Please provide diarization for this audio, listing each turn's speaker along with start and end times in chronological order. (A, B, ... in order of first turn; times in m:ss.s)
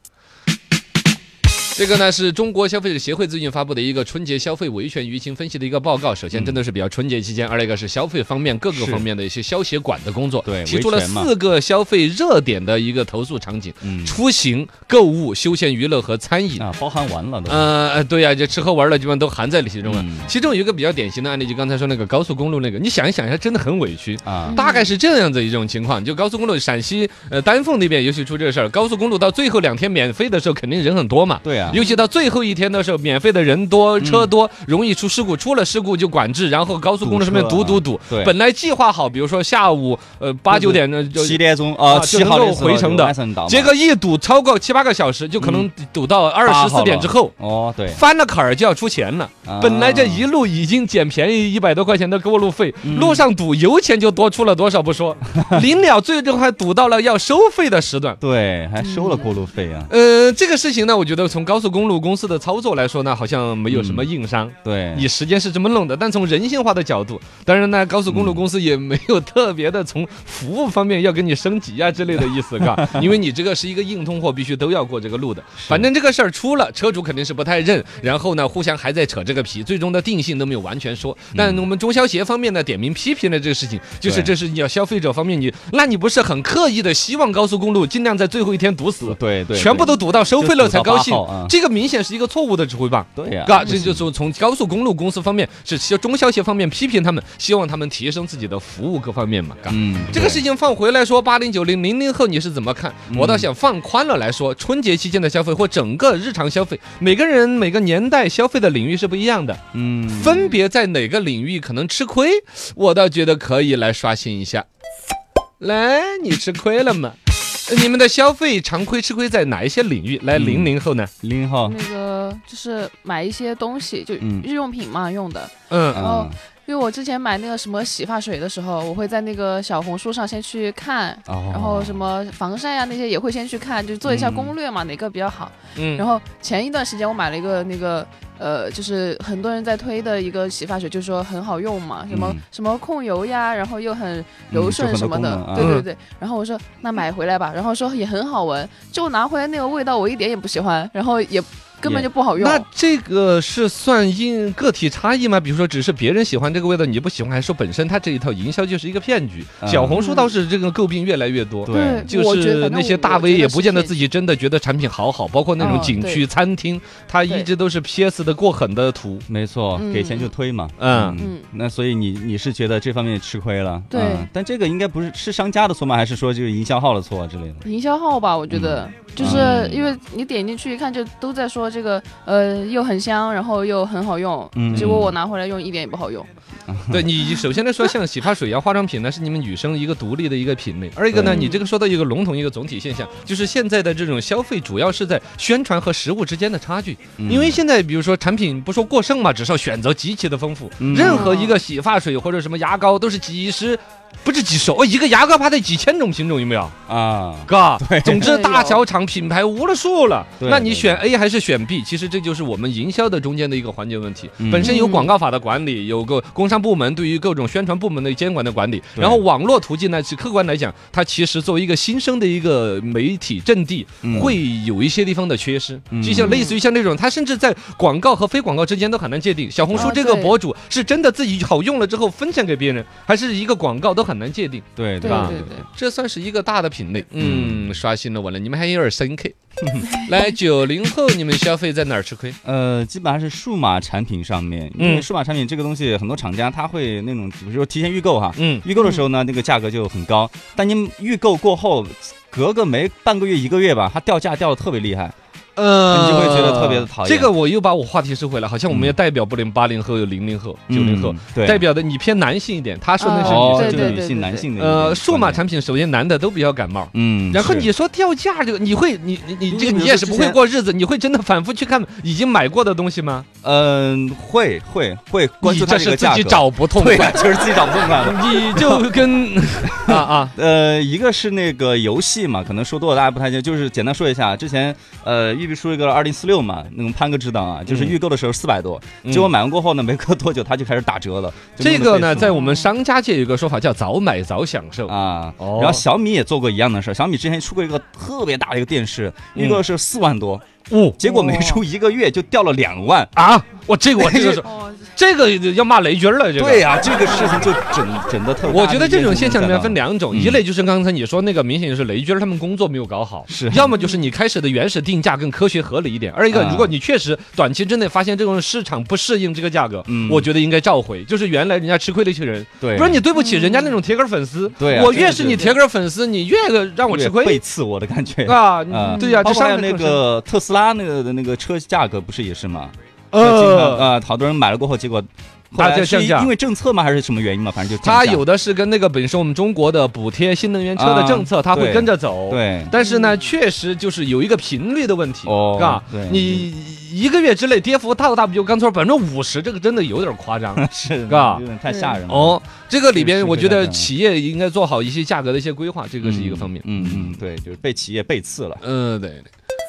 0:01.8-0:16.6 A
0:06.3-0:06.6 B
0:08.7-0:09.1 B
0:10.4-0:11.3 B
0:13.8-0:14.2 B
0:16.6-0:17.7 B
0:17.5-0:47.3 A
0:19.8-0:20.3 B
0:24.2-0:24.6 B
0:24.4-0:24.9 C
0:31.4-0:31.8 B
0:31.7-0:32.0 C
0:34.0-0:34.3 B
0:37.0-0:38.3 B
0:40.5-0:43.7 B
0:45.4-0:45.7 B
0:46.4-0:48.0 B
0:47.9-0:58.2 A
0:49.4-0:50.2 B
0:52.8-0:53.2 B
0:58.2-0:59.9 B
0:58.8-0:59.3 C
0:59.9-1:49.6 A
1:03.7-1:04.1 B
1:04.6-1:05.1 B
1:08.1-1:08.4 B
1:12.8-1:13.0 B
1:15.6-1:15.9 B
1:21.3-1:21.6 B
1:24.0-1:24.3 B
1:29.0-1:31.5 B
1:33.2-1:34.1 B
1:39.7-1:40.4 B
1:43.1-1:43.5 B
1:49.7-1:50.5 B
1:50.1-1:54.6 A
1:55.6-2:01.1 A
2:00.3-2:01.8 B
2:01.6-2:32.6 C
2:04.2-2:04.5 B
2:05.7-2:06.0 A
2:05.9-2:06.3 B
2:11.2-2:12.0 B
2:14.0-2:14.5 B
2:15.7-2:16.0 A
2:22.1-2:22.4 B
2:24.5-2:25.7 B
2:25.6-2:25.9 A
2:32.3-2:49.2 A
2:39.6-2:40.0 B
2:39.9-2:40.3 C
2:41.6-2:42.1 B
2:41.7-2:43.9 C
2:45.6-2:45.9 B
2:45.6-2:46.2 C
2:49.3-2:57.6 B
2:49.7-2:50.3 C
2:50.8-2:51.2 A
2:51.2-2:51.5 C
2:53.9-2:54.3 C
2:57.6-3:06.3 C
2:58.5-2:59.9 B
2:59.2-2:59.6 A
3:04.5-3:05.2 B
3:04.7-3:05.0 A
3:06.7-3:07.1 B
3:06.9-3:26.8 A
3:11.1-3:11.5 B
3:11.2-3:11.6 C
3:17.2-3:17.6 B
3:20.8-3:21.3 B
3:20.9-3:21.6 C
3:26.9-3:28.3 B
3:27.5-3:59.3 A
3:28.2-3:28.8 C
3:30.4-3:31.0 B
3:34.4-3:34.8 B
3:34.6-3:35.1 C
3:39.0-3:39.2 B
3:44.0-3:44.4 B
3:45.9-3:46.4 B
3:46.1-3:46.6 C
3:49.7-3:50.3 C
3:54.8-3:55.6 B
3:55.0-3:55.6 C
3:57.2-3:57.8 B
3:59.6-3:59.9 B
3:59.9-4:02.4 A
4:02.4-4:15.1 B
4:04.8-4:05.1 A
4:08.4-4:08.6 A
4:15.6-4:24.0 A
4:15.8-4:17.3 B
4:18.7-4:19.0 B
4:20.7-4:21.6 B
4:23.0-4:24.5 C
4:23.2-4:25.4 B
4:24.6-4:33.2 A
4:26.9-4:27.7 B
4:29.5-4:30.4 B
4:33.4-4:38.9 B
4:35.4-4:40.3 A
4:39.8-4:52.4 B
4:47.7-4:48.0 A
4:49.0-4:49.3 A
4:51.6-4:55.8 A
4:52.2-4:52.7 C
4:54.9-5:00.4 B
4:59.3-4:59.6 A
5:00.7-5:01.0 A
5:01.0-5:03.1 B
5:01.0-5:01.6 C
5:03.2-5:06.7 A
5:04.0-5:04.4 B
5:04.4-5:04.9 C
5:06.4-5:10.4 B
5:07.0-5:07.5 C
5:08.5-5:27.4 A
5:13.3-5:13.7 B
5:13.7-5:14.0 C
5:16.3-5:16.7 B
5:19.8-5:20.3 B
5:22.6-5:23.0 B
5:23.2-5:23.8 C
5:24.6-5:25.6 B
5:24.8-5:25.2 C
5:26.9-5:38.2 B
5:28.2-5:30.0 A
5:28.8-5:29.3 C
5:33.1-5:33.9 A
5:35.6-5:36.3 A
5:37.8-5:51.4 A
5:40.7-5:42.7 B
5:42.8-5:43.2 C
5:45.2-5:46.5 B
5:50.5-5:52.4 B
5:51.7-5:52.0 C
5:52.1-5:57.1 A
5:52.9-5:53.9 B
5:56.0-5:58.6 B
5:58.6-5:59.3 A